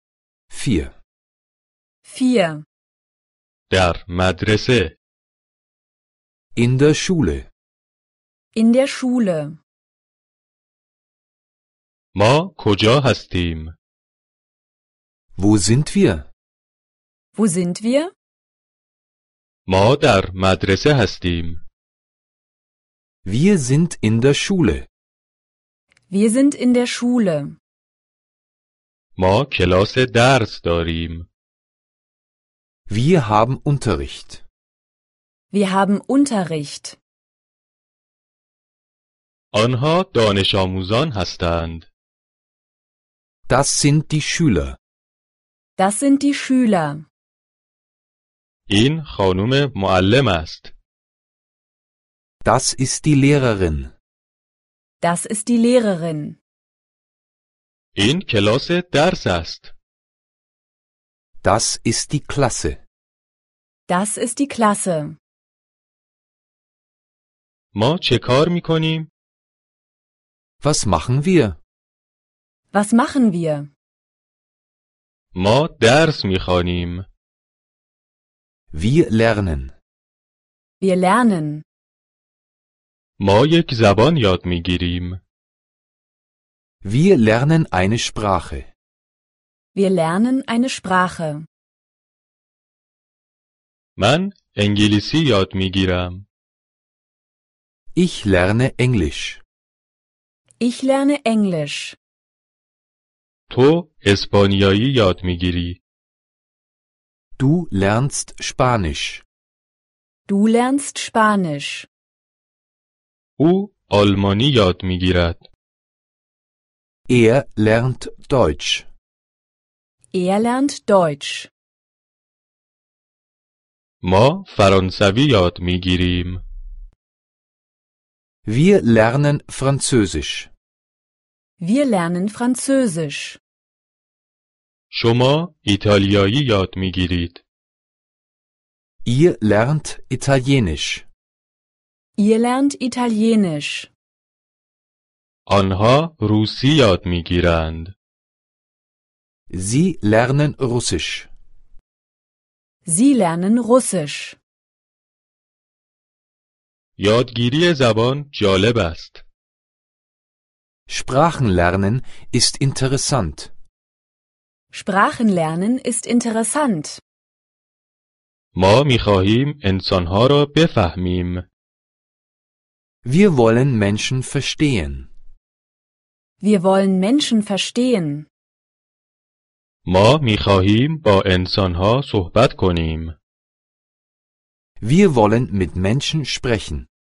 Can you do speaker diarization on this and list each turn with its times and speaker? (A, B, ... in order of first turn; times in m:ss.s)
0:00.5-0:00.9 A
0:02.0-0:02.6 B
0:03.7-0:05.0 C
0:06.6-0:07.5 A
0:08.6-0:09.6 B
0:12.1-0:13.8 C
0:15.4-0:16.3 A
0:17.4-0:18.1 B
0:19.7-0:21.6 C
0:23.2-0:24.9 A
0:26.1-0:27.6 B
0:29.2-0:31.3 C
0:32.9-0:34.4 A
0:35.5-0:37.0 B
0:39.5-0:41.9 C
0:43.5-0:44.8 A
0:45.8-0:47.1 B
0:48.7-0:50.7 C
0:52.4-0:53.9 A
0:55.0-0:56.4 B
0:58.0-0:59.7 C
1:01.4-1:02.8 A
1:03.9-1:05.2 B
1:07.7-1:09.1 C
1:10.6-1:11.6 A
1:12.7-1:13.7 B
1:15.3-1:17.0 C
1:18.7-1:19.7 A
1:20.8-1:21.6 B
1:23.2-1:25.2 C
1:26.8-1:28.7 A
1:29.7-1:31.5 B
1:34.0-1:36.3 C
1:38.0-1:39.4 A
1:40.6-1:42.0 B
1:43.5-1:45.8 C
1:47.4-1:49.2 A
1:50.3-1:51.9 B
1:53.4-1:55.5 C
1:57.1-1:58.9 A
2:00.1-2:01.5 B
2:04.0-2:06.4 C
2:08.4-2:10.5 A
2:11.6-2:13.4 B
2:14.9-2:17.4 C
2:19.0-2:21.1 A
2:22.2-2:23.9 B
2:25.5-2:28.0 C
2:29.5-2:31.3 A
2:32.8-2:34.4 B
2:37.0-2:39.2 C
2:40.9-2:43.5 A
2:44.7-2:47.0 B
2:48.6-2:51.4 C
2:53.0-2:55.1 A
2:56.4-2:58.3 B
2:59.8-3:03.2 C
3:04.8-3:06.9 A